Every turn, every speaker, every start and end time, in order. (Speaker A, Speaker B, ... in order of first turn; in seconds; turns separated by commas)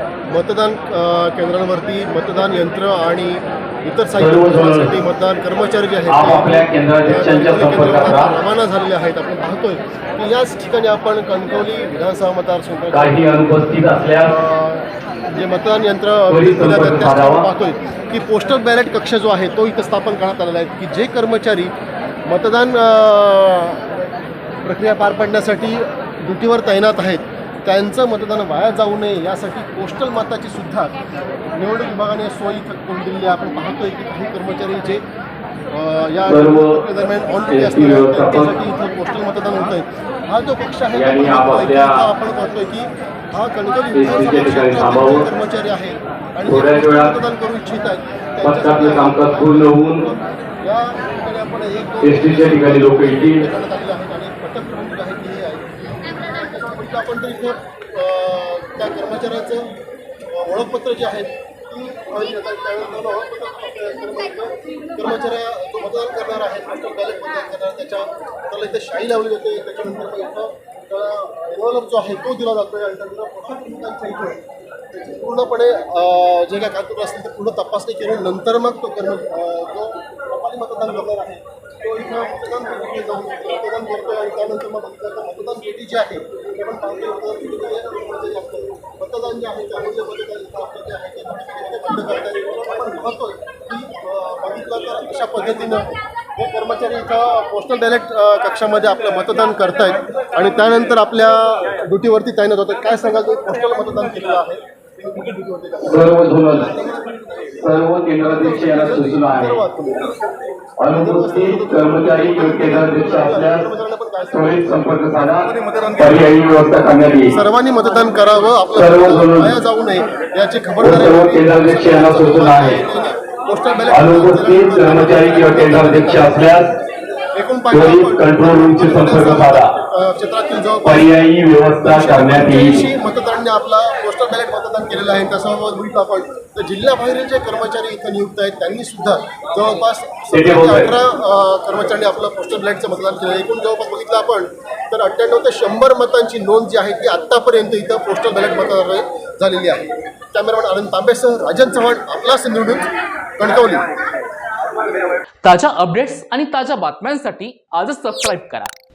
Speaker A: 0.3-13.3, Speaker B: 4.2-4.9, Speaker B: 6.1-8.4, Speaker B: 12.9-14.3, Speaker A: 14.3-21.7, Speaker B: 16.3-17.5, Speaker A: 22.3-23.9, Speaker A: 24.6-31.0, Speaker A: 31.5-35.0, Speaker A: 35.7-59.7, Speaker B: 36.3-36.8, Speaker B: 37.5-38.5, Speaker B: 40.9-42.0, Speaker B: 43.9-45.3, Speaker B: 46.5-47.2, Speaker B: 48.4-50.1, Speaker B: 52.0-53.4, Speaker A: 60.3-107.7, Speaker B: 105.8-106.7, Speaker B: 107.6-109.6, Speaker A: 108.3-110.2, Speaker B: 110.8-113.7, Speaker A: 110.9-116.3, Speaker B: 114.3-115.5, Speaker B: 116.0-117.4, Speaker A: 117.3-126.6, Speaker B: 118.8-119.5, Speaker B: 120.8-122.8, Speaker B: 123.9-126.7, Speaker A: 127.3-131.1, Speaker B: 127.7-129.7, Speaker B: 130.8-132.9, Speaker A: 131.8-153.9, Speaker B: 140.3-140.9, Speaker C: 155.4-158.7